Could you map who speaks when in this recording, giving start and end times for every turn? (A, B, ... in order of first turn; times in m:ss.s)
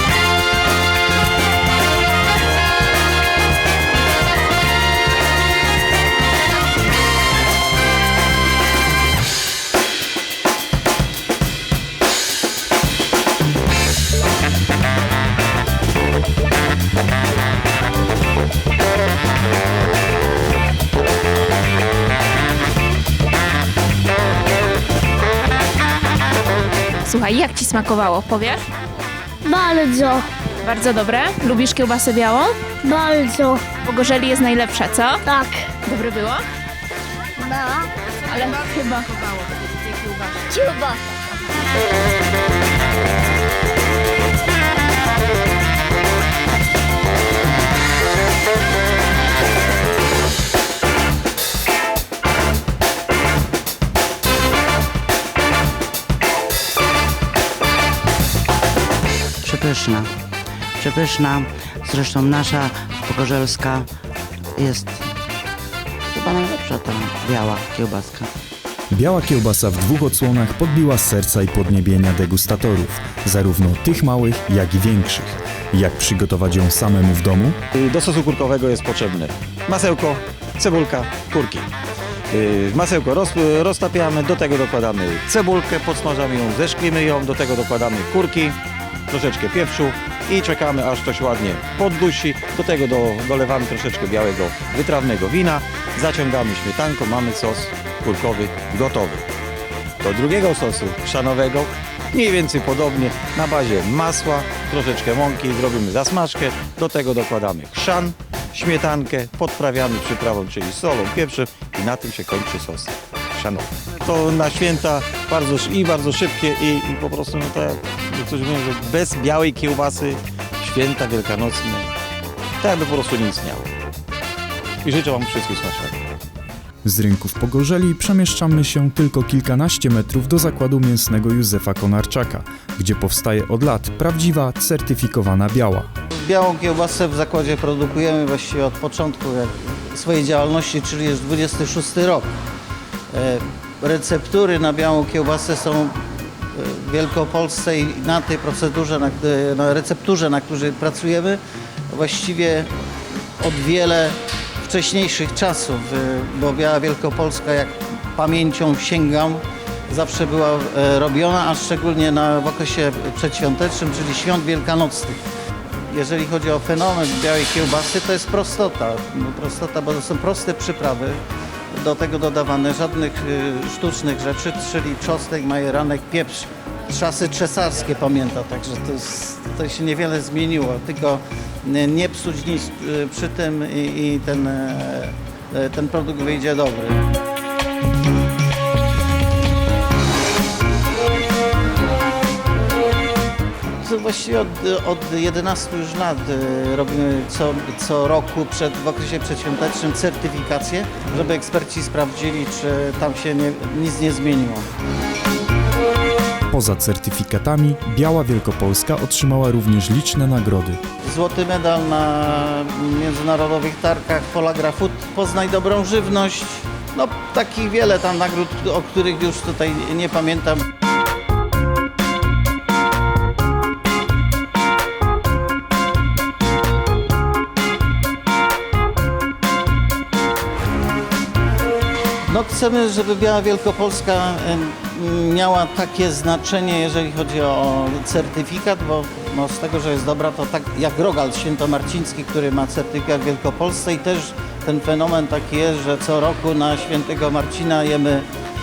0:27.0-0:28.6 A
0:29.4-0:30.3 B
0:30.6-0:32.7 A
0:32.8-0:33.7 B
0:33.8-0:35.2 A
0:35.2-0:35.7 B
0:35.8-0:36.4 A
0:37.4-0:37.9 B
0:38.3-0:39.4 A
0:38.6-0:38.9 B
0:40.3-0:41.1 B
0:59.4-1:00.1 C
1:00.8-1:03.9 C
1:04.6-1:05.1 C
1:06.1-1:08.3 C
1:08.9-1:17.6 D
1:17.7-1:21.7 E
1:22.3-1:28.6 E
1:29.1-1:39.3 E
1:40.0-2:01.9 E
2:02.6-2:03.7 E
2:04.8-2:06.0 E
2:06.8-2:15.9 D
2:16.2-2:22.3 F
2:23.1-2:32.7 F
2:33.4-2:45.2 F
2:45.9-2:51.2 F
2:51.7-3:07.0 F
3:13.8-3:24.7 F
3:26.5-3:30.8 D
3:31.0-3:40.6 F
3:52.3-4:08.2 F